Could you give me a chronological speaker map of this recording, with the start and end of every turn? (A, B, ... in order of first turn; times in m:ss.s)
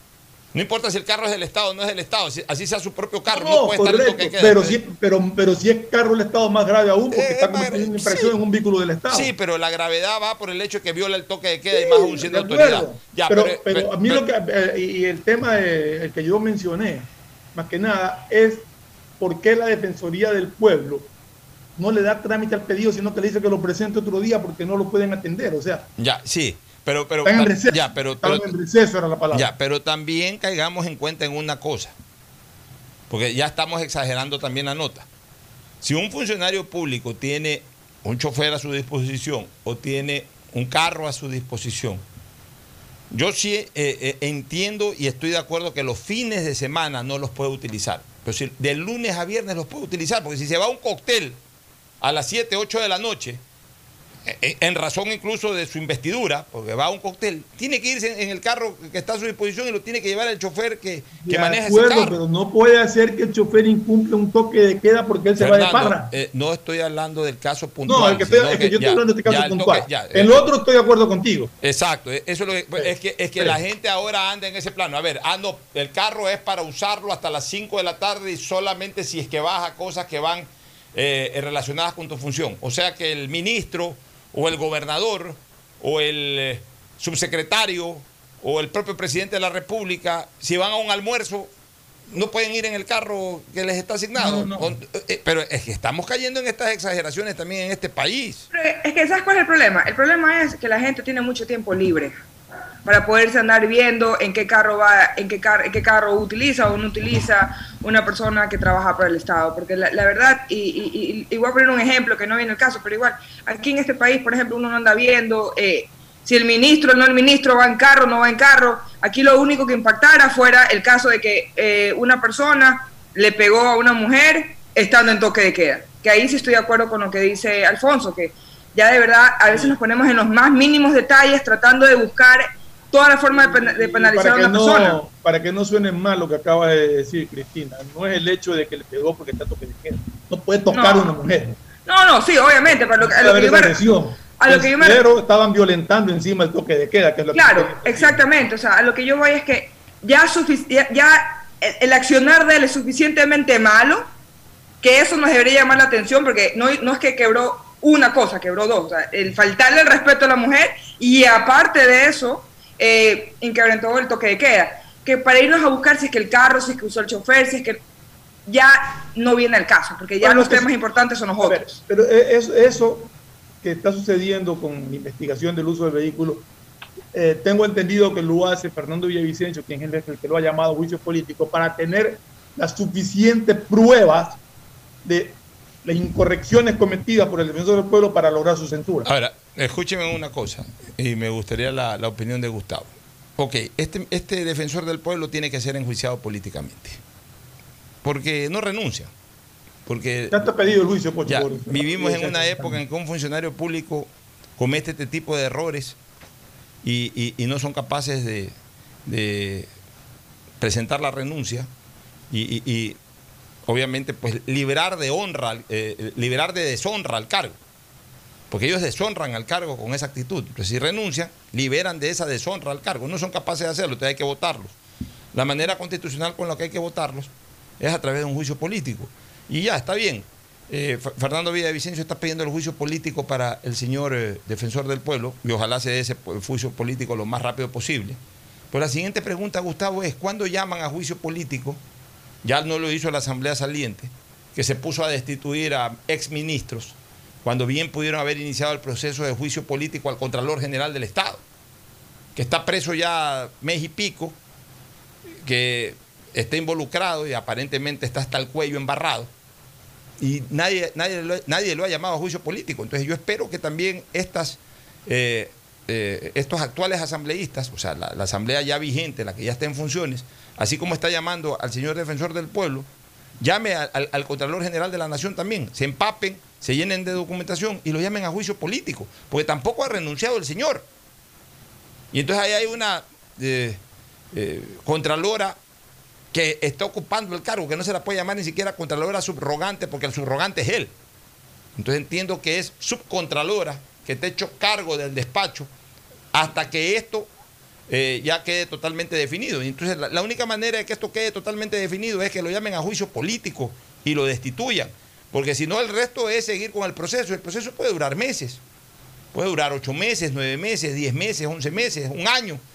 0:00.5-0:04.8 A
0:03.3-0:09.3 B
0:07.1-0:08.3 A
0:09.1-0:14.2 A
0:11.7-0:18.6 B
0:19.2-0:21.1 B
0:21.8-0:25.9 B
0:26.0-0:28.5 A
0:27.2-0:29.5 B
0:29.3-0:31.9 A
0:33.1-0:35.1 A
0:35.8-0:42.0 A
0:43.1-0:51.4 A
0:52.0-0:53.4 A
0:54.2-1:02.2 A
1:01.2-1:06.1 B
1:05.4-1:10.4 A
1:07.8-1:11.5 B
1:11.6-1:31.5 A
1:12.8-1:13.6 B
1:32.1-1:38.5 A
1:34.1-1:34.7 B
1:38.5-1:42.2 C
1:42.8-2:15.0 C
2:09.5-2:09.8 B
2:13.3-2:21.6 B
2:20.7-2:21.1 C
2:21.8-2:23.8 C
2:23.0-2:28.2 B
2:24.4-2:25.0 C
2:27.3-2:34.1 C
2:34.8-2:47.8 C
2:48.4-2:51.8 C
2:50.2-2:50.7 B
2:51.4-2:56.4 B
2:57.1-3:04.4 B
3:05.0-3:09.1 B
3:09.0-3:17.0 A
3:18.0-3:19.1 A
3:19.8-3:20.4 A
3:20.3-3:22.8 B
3:21.2-3:26.0 A
3:26.8-3:28.5 A
3:29.0-3:29.7 A
3:30.6-3:31.7 A
3:32.3-3:33.0 A
3:33.6-3:37.6 A
3:38.5-3:44.7 A
3:45.3-3:58.2 A
3:58.7-4:01.8 A
4:02.4-4:11.4 A
4:12.3-4:14.4 A
4:15.4-4:19.3 A
4:20.2-4:32.9 A
4:33.4-4:40.8 A
4:42.1-4:43.8 A
4:44.3-4:45.6 A
4:46.3-4:50.9 A
4:51.8-4:55.7 A
4:56.3-4:57.3 A
4:57.9-5:08.6 A
5:09.3-5:12.6 A